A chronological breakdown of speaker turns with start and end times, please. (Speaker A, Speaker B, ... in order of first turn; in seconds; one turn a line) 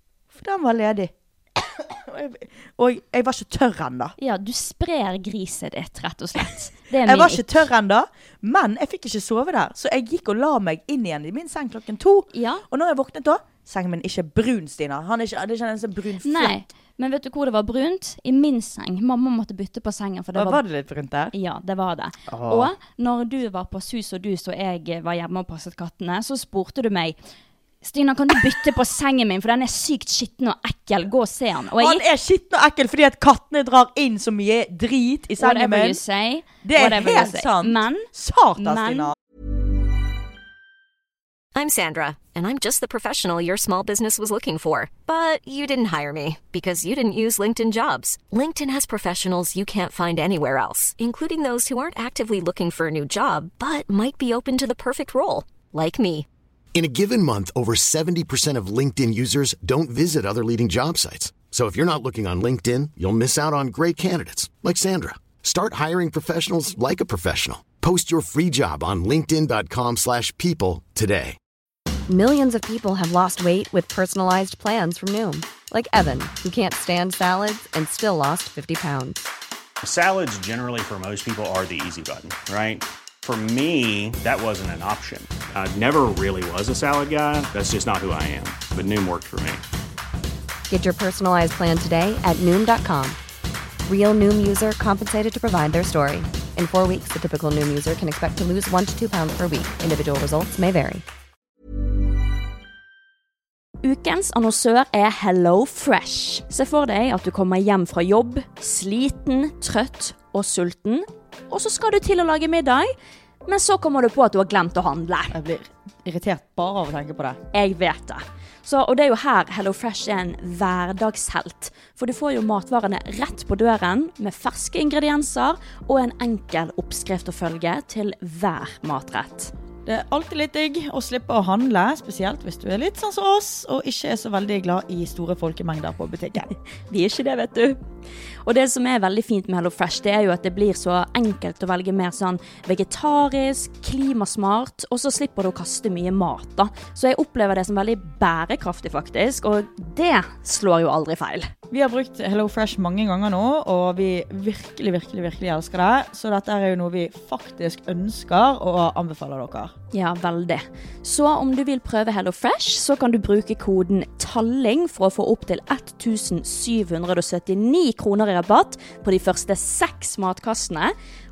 Speaker A: 0.3-4.2
Speaker B: 4.2-7.6
Speaker A: 7.0-16.6
Speaker B: 12.3-12.6
Speaker B: 16.2-20.6
Speaker A: 20.3-21.3
Speaker B: 21.3-27.2
Speaker A: 22.3-22.7
Speaker B: 27.8-32.0
Speaker A: 31.8-36.0
Speaker B: 35.4-39.1
Speaker A: 36.6-39.1
Speaker C: 41.5-56.3
Speaker D: 56.7-71.4
Speaker E: 72.1-79.3
Speaker F: 79.8-89.6
Speaker E: 90.7-93.2
Speaker E: 93.8-101.0
Speaker B: 103.8-112.9
Speaker B: 113.4-115.4
Speaker A: 115.3-117.4
Speaker B: 117.5-129.5
Speaker A: 129.8-136.5
Speaker B: 136.9-137.8
Speaker B: 138.4-151.5
Speaker A: 151.7-159.7
Speaker B: 159.9-170.9